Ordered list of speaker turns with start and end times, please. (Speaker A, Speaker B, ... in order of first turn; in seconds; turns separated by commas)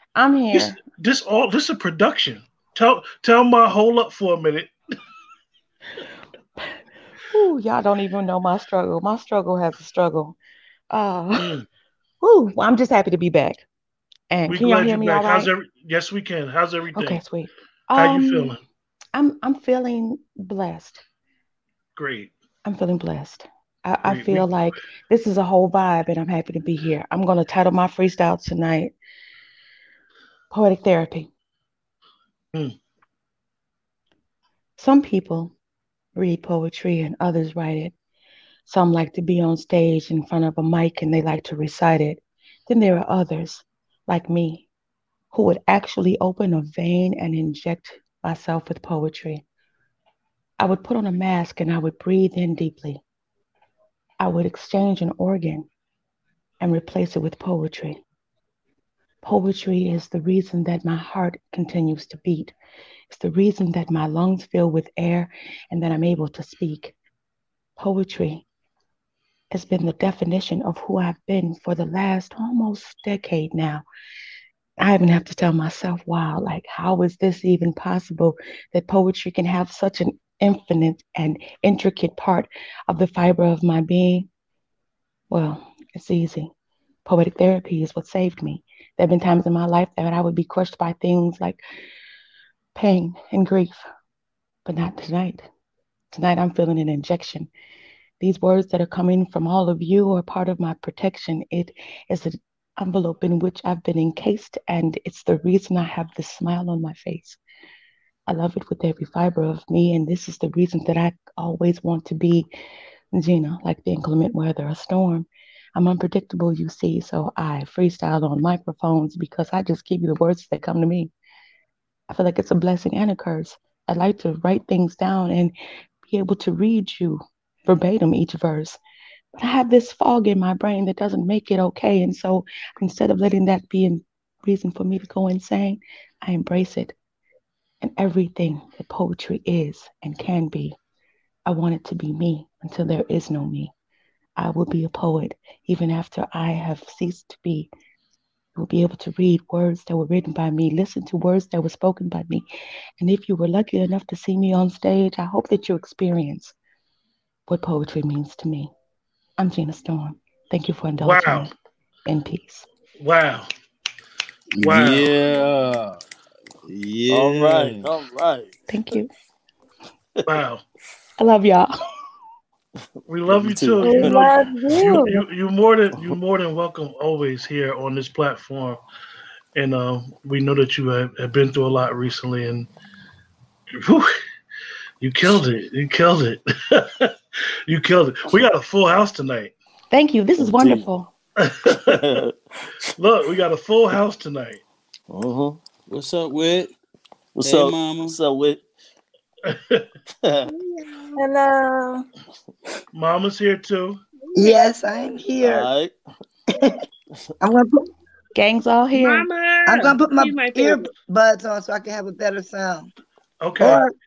Speaker A: 0.2-0.8, Speaker B: 0.5-4.7, Speaker A: 7.3-10.4, Speaker A: 10.9-11.5, Speaker B: 11.4-11.7, Speaker A: 12.2-13.6, Speaker A: 14.3-15.5, Speaker B: 14.5-17.2, Speaker A: 16.9-18.6, Speaker B: 17.9-18.6, Speaker A: 19.1-21.0, Speaker B: 22.0-22.3, Speaker A: 22.6-28.9, Speaker B: 24.0-24.5, Speaker A: 30.5-31.3, Speaker A: 34.8-35.5, Speaker A: 36.1-37.9, Speaker A: 38.7-44.7, Speaker A: 45.3-49.4, Speaker A: 50.6-53.0, Speaker A: 54.2-55.7, Speaker A: 56.6-58.0, Speaker A: 59.2-62.5, Speaker A: 63.1-66.9, Speaker A: 67.8-68.4, Speaker A: 69.5-73.8, Speaker A: 74.8-84.3, Speaker A: 85.3-86.5, Speaker A: 87.1-91.6, Speaker A: 92.8-93.8, Speaker A: 94.7-95.5, Speaker A: 96.1-97.5, Speaker A: 98.2-107.4, Speaker A: 108.3-112.5, Speaker A: 113.1-121.1, Speaker A: 122.1-125.5, Speaker A: 126.0-128.8, Speaker A: 129.4-136.9, Speaker A: 137.8-140.8, Speaker A: 141.5-143.7, Speaker A: 144.4-147.7, Speaker A: 148.6-152.4, Speaker A: 153.0-156.6, Speaker A: 157.5-158.7, Speaker A: 159.4-161.5, Speaker B: 161.0-161.5, Speaker A: 162.1-162.7, Speaker B: 163.0-163.5, Speaker C: 164.6-166.0, Speaker B: 164.6-165.1, Speaker C: 166.7-167.9, Speaker D: 167.1-168.6, Speaker A: 168.7-169.1, Speaker B: 170.3-170.6, Speaker A: 171.2-171.8, Speaker B: 173.1-178.8, Speaker D: 173.3-174.3, Speaker E: 173.8-175.2, Speaker B: 179.6-182.7, Speaker B: 183.8-184.2, Speaker B: 185.0-187.1, Speaker B: 187.7-189.5, Speaker A: 189.9-191.1, Speaker D: 190.4-190.9, Speaker B: 191.4-192.1, Speaker D: 191.8-192.9, Speaker B: 193.0-194.6, Speaker D: 195.1-195.6, Speaker C: 195.9-196.7, Speaker D: 197.4-198.6, Speaker C: 197.4-198.2, Speaker B: 199.5-199.9, Speaker D: 200.2-200.5, Speaker F: 200.5-201.2, Speaker E: 201.2-202.1, Speaker B: 202.9-204.0, Speaker F: 204.3-204.6, Speaker G: 204.3-205.7, Speaker D: 205.4-205.9, Speaker G: 207.4-207.9, Speaker A: 208.4-209.3, Speaker F: 208.9-210.9, Speaker G: 209.7-212.9, Speaker B: 213.4-213.9, Speaker G: 213.6-213.9